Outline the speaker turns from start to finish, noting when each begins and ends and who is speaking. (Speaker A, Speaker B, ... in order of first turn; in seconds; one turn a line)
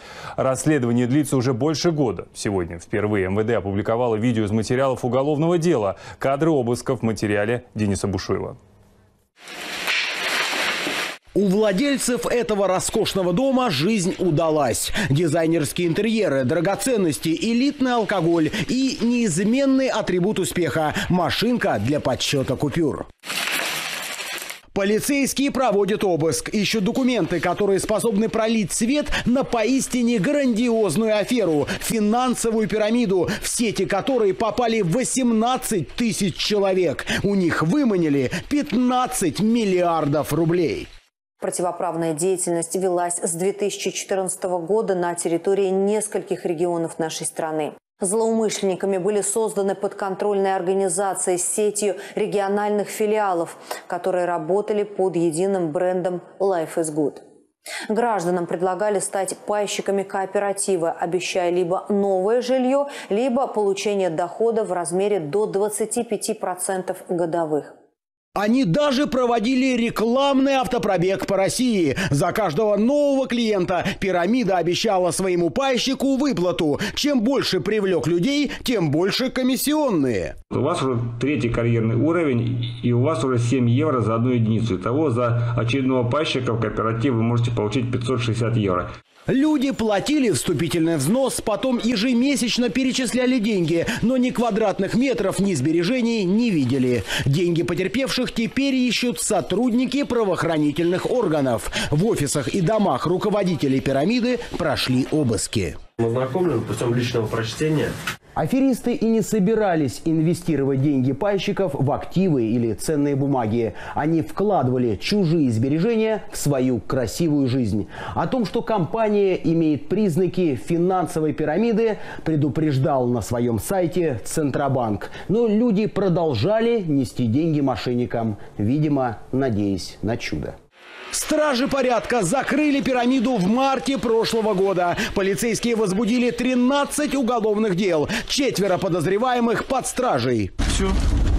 Speaker A: 0.4-8.6
Speaker B: 11.3-23.1
Speaker B: 24.7-40.9
Speaker C: 41.4-57.2
Speaker C: 57.9-67.7
Speaker B: 68.3-80.3
Speaker D: 80.5-88.9
Speaker B: 89.3-105.8
Speaker E: 106.0-107.9
Speaker B: 108.3-130.5
Speaker B: 131.1-140.5